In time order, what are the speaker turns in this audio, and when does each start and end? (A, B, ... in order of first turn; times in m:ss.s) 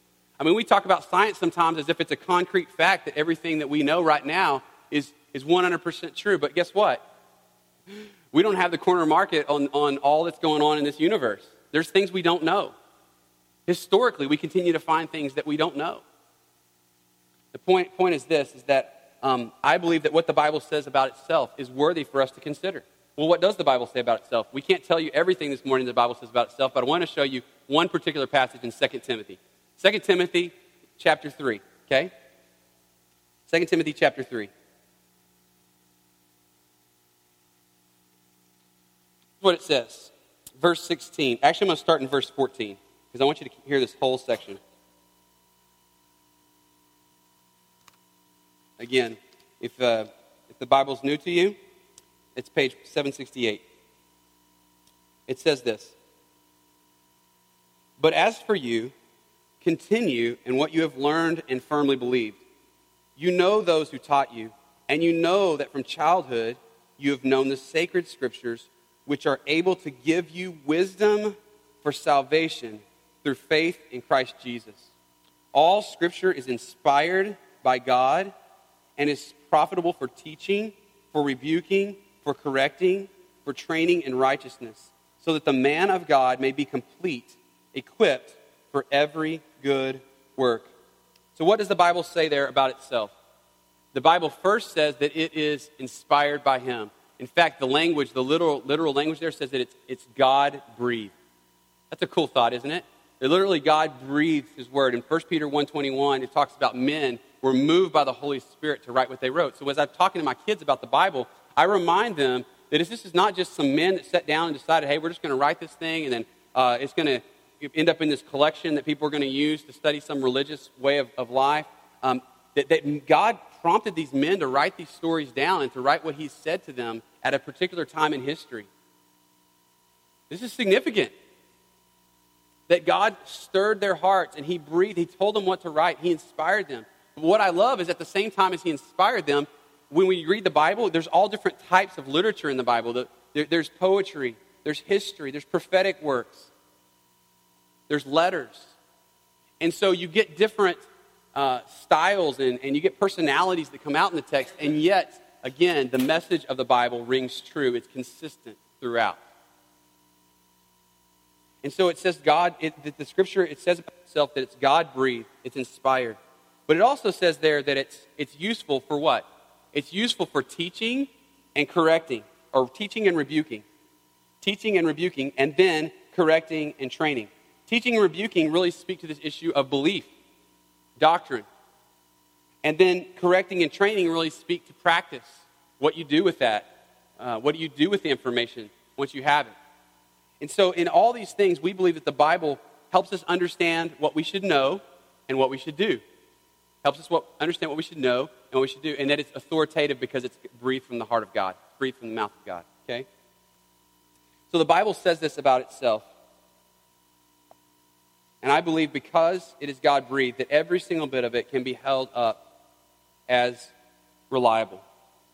0:00.4-0:07.0 A
0:08.3-0:12.7 A
0:13.7-0:16.0 A
0:17.5-0:32.1 A
0:33.5-0:34.5 A
0:39.4-0:44.6 A
0:48.8-0:51.6 A
0:52.4-0:53.6 A
0:55.3-0:55.9 A
0:58.0-0:58.9 A
0:59.6-1:02.4 A
1:03.2-1:14.9 A
1:15.5-1:18.3 A
1:19.0-1:30.7 A
1:31.3-1:33.1 A
1:33.9-1:41.1 A
1:41.9-2:08.7 A
2:10.3-2:11.1 A
2:12.7-2:26.5 A
2:27.9-2:28.7 A
2:29.6-2:39.2 A
2:41.6-2:53.6 A
2:54.4-3:00.1 A
3:01.0-3:01.4 A
3:02.6-3:09.5 A
3:10.4-3:16.0 A
3:16.8-3:23.0 A
3:24.5-3:26.1 A
3:28.4-3:32.4 A
3:33.3-3:33.7 A
3:34.3-3:34.8 A